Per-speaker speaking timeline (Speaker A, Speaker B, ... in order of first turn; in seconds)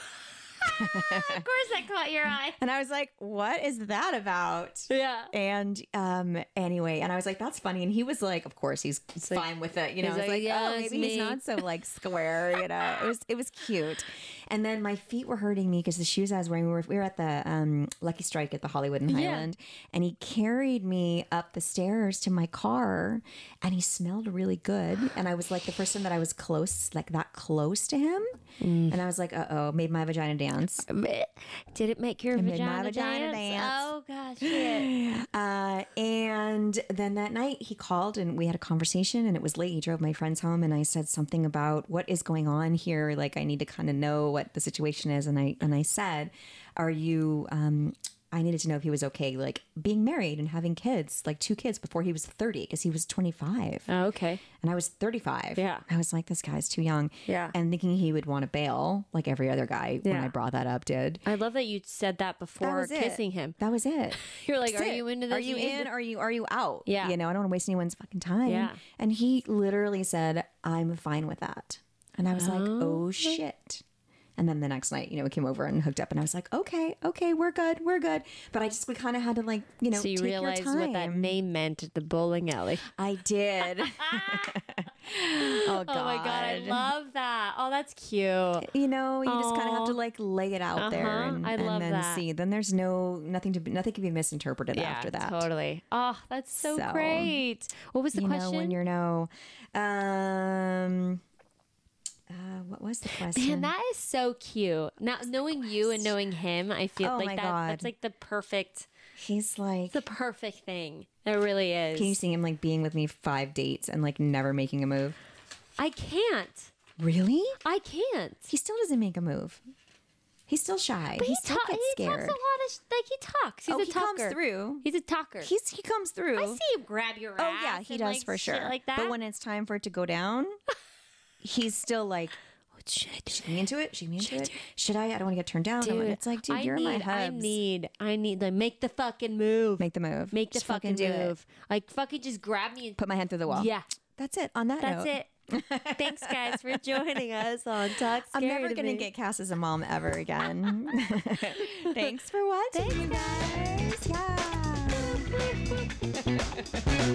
Speaker A: 0.6-2.6, 4.9-5.3, 9.2-9.4, 10.0-11.5, 19.1-19.5, 28.6-28.9, 30.9-34.9, 53.9-54.4, 55.6-55.9, 57.3-57.5, 60.0-60.3, 61.2-63.6, 64.2-65.9, 66.9-67.2, 68.5-68.8, 72.3-73.4, 79.9-82.9, 83.8-84.6, 85.4-88.7, 89.2-90.0, 90.8-92.2, 94.7-98.8, 103.1-108.9, 109.9-112.2, 115.8-116.7, 117.6-118.5, 121.2-125.5, 126.4-129.1, 132.7-133.5, 134.2-134.6, 135.8-143.9, 144.8-145.3, 146.0-149.1, 152.7-153.8
Speaker B: 0.7-1.5, 2.6-30.9, 32.3-53.9, 54.6-61.2, 62.6-73.8, 74.4-81.3, 82.9-86.9, 88.6-95.5, 96.6-97.4, 98.1-101.2, 102.3-103.7, 107.0-107.9, 109.2-110.0, 111.9-115.2, 117.0-117.6, 118.5-119.6, 120.5-122.4, 123.7-124.8, 125.4-126.6, 127.4-130.6, 131.4-132.3, 133.3-137.6, 139.8-141.3, 143.0-147.2, 148.3-155.3